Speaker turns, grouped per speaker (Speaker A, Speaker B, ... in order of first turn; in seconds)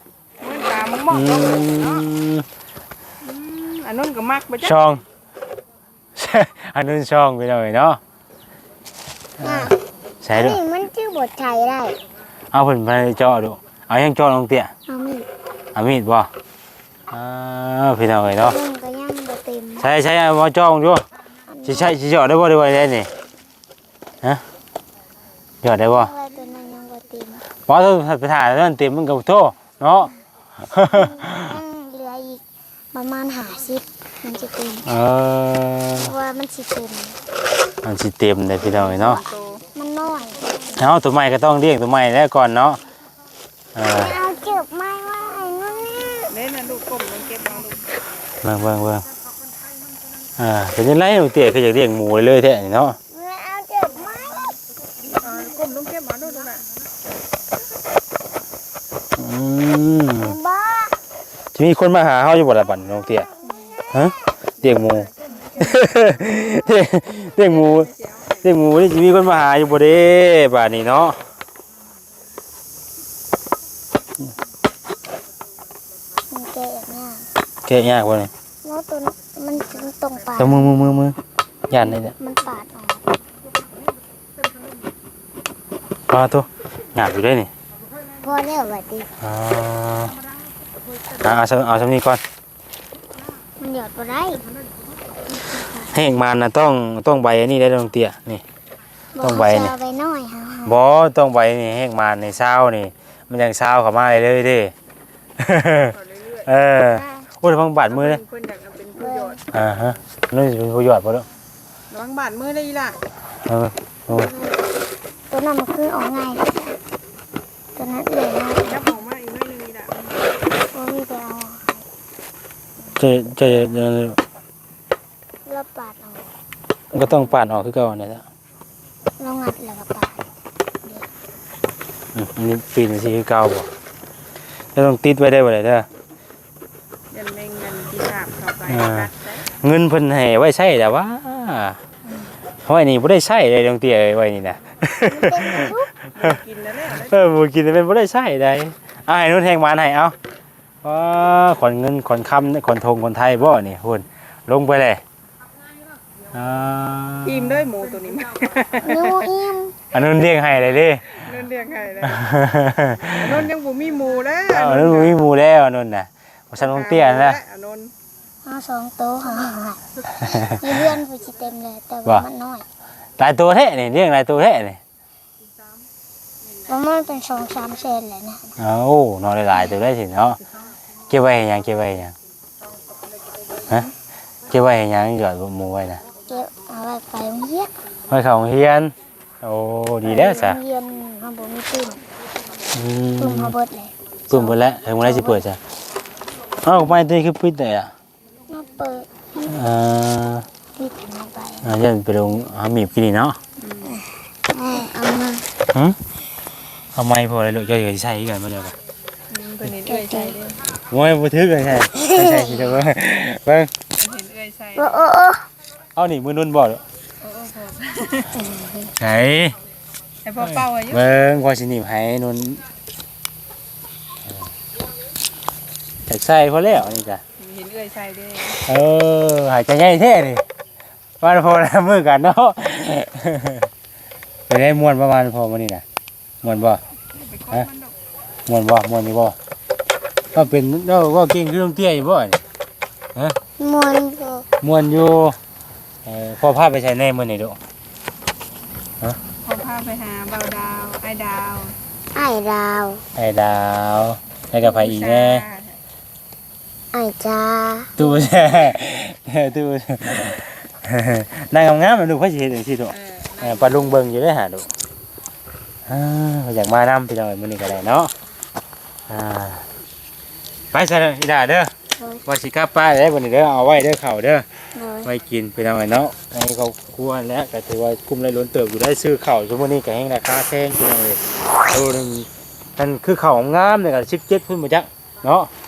Speaker A: 0.4-2.1, 3.2-4.7, 38.9-39.6, 46.3-47.8, 55.1-56.6, 64.6-66.3, 67.3-68.5, 105.8-107.0, 107.8-109.9, 111.9-113.0, 118.7-120.4, 137.1-139.4, 146.1-147.2, 157.2-159.3, 161.1-162.2, 163.1-165.2, 166.6-167.9, 203.6-203.9, 209.3-210.6, 214.0-215.0, 217.2-218.3, 220.2-221.1, 227.4-228.6, 237.1-237.9, 249.4-251.7, 254.6-255.8, 262.9-264.0
Speaker B: 1.1-2.4, 4.6-5.0, 6.2-8.0, 9.4-10.6, 12.5-14.7, 15.7-16.3, 17.1-18.6, 19.8-21.0, 21.6-23.1, 25.6-26.1, 27.6-30.1, 30.7-31.5, 34.9-36.1, 37.8-39.2, 40.8-42.8, 43.7-44.1, 48.4-49.0, 50.4-53.0, 59.2-60.3, 61.5-63.3, 63.9-67.9, 68.4-71.2, 77.6-78.3, 80.4-81.2, 81.7-82.1, 86.1-87.5, 89.2-90.1, 91.2-92.2, 95.9-98.4, 99.2-99.7, 100.6-104.7, 105.4-105.9, 106.4-108.2, 109.5-111.2, 113.5-114.3, 123.0-124.2, 126.9-128.2, 132.1-133.7, 134.7-135.9, 138.7-139.1, 139.6-141.8, 142.6-145.7, 147.1-150.1, 150.8-155.0, 156.3-157.7, 159.9-161.2, 162.0-163.5, 164.5-167.4, 170.2-170.9, 173.2-174.8, 178.6-180.4, 181.1-182.1, 184.5-186.0, 188.1-190.6, 192.7-193.5, 194.3-195.6, 196.6-197.9, 199.5-200.4, 201.6-203.4, 205.7-206.0, 206.9-208.7, 210.9-213.7, 215.9-216.8, 219.0-219.5, 220.4-222.6, 226.1-227.2, 228.6-230.4, 231.2-233.7, 234.5-235.8, 236.4-236.8, 238.5-239.3, 240.3-242.4, 244.6-245.4, 246.0-247.6, 253.2-255.4, 258.0-264.7, 265.9-268.1, 269.1-269.6, 270.7-271.7, 272.2-274.4, 275.0-285.5
Speaker C: 9.4-9.8, 10.3-12.0, 14.9-15.3, 18.4-19.9, 21.5-21.9, 25.8-27.4, 30.9-34.9, 36.0-37.2, 38.6-39.2, 39.7-40.9, 43.9-46.3, 53.1-54.6, 60.2-61.0, 63.4-64.2, 76.3-77.2, 78.6-80.9, 81.8-83.1, 88.2-89.1, 93.6-94.4, 95.3-95.9, 99.1-100.8, 109.0-109.4, 114.1-114.7, 115.3-116.8, 117.8-118.9, 120.7-121.8, 125.5-126.3, 127.0-127.3, 129.2-130.2, 145.0-145.9, 158.8-159.8, 168.4-172.7, 176.7-178.5, 186.3-187.7, 190.0-192.0, 193.2-195.4, 198.5-199.6, 200.8-201.7, 203.8-205.5, 209.8-210.4, 211.9-212.8, 214.8-215.4, 218.3-218.9, 243.6-244.5, 252.1-253.0, 256.9-257.9, 274.7-275.1